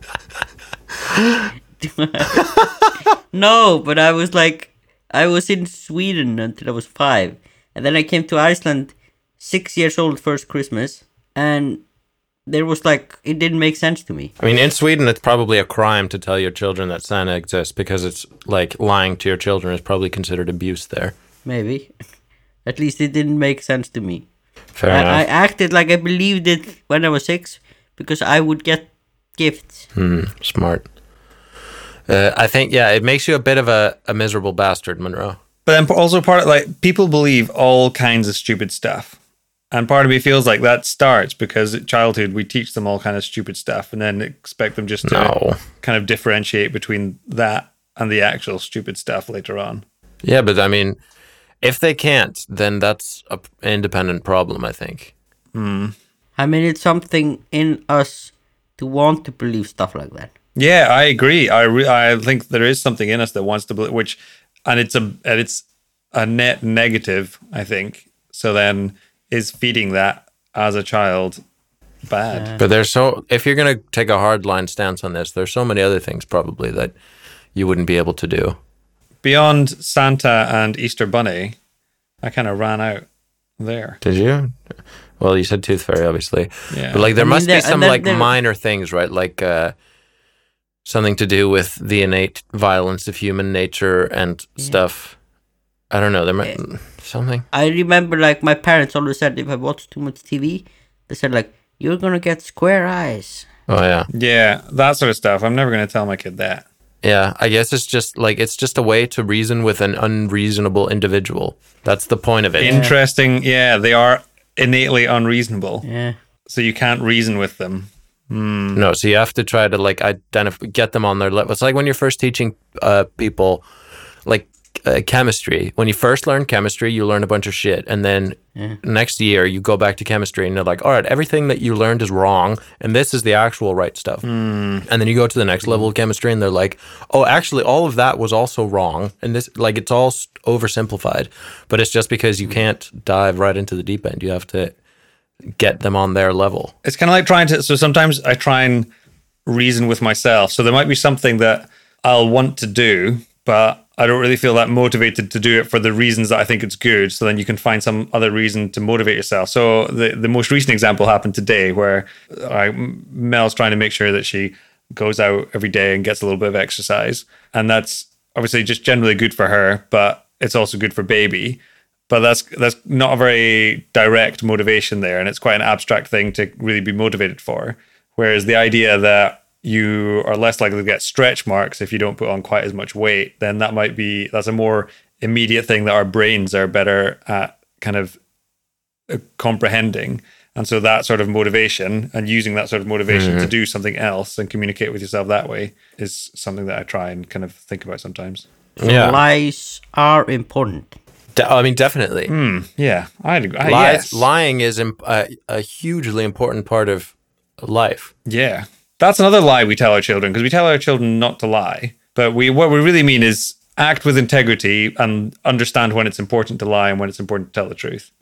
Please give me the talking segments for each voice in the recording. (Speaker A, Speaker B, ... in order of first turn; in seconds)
Speaker A: 1.8-2.5, 3.3-11.8, 12.5-14.3, 21.4-21.9, 22.6-24.2, 24.9-29.9, 56.4-60.3, 72.3-72.6, 87.2-88.3, 97.5-103.5, 112.6-112.9, 115.8-116.2, 198.8-201.0
Speaker B: 14.4-21.1, 24.8-25.2, 29.9-30.9, 32.1-35.4, 45.0-45.6, 50.2-51.0, 51.6-55.1, 72.6-76.9, 77.5-78.6, 84.0-84.6, 85.2-89.7, 90.8-95.2, 95.9-97.5, 103.7-104.1, 107.0-112.8, 118.7-123.6, 124.2-134.2, 134.8-144.7, 145.5-146.7, 193.1-193.5, 198.8-199.2, 201.3-202.3, 203.6-208.1
Speaker C: 35.6-39.1, 39.7-49.8, 55.5-55.9, 60.6-71.4, 72.1-72.5, 79.2-81.5, 82.2-83.0, 83.6-84.0, 86.7-87.1, 104.1-106.6, 112.6-115.8, 116.5-118.8, 134.2-134.8, 146.8-148.9, 149.4-188.2, 189.1-198.4, 202.3-204.2, 208.2-218.1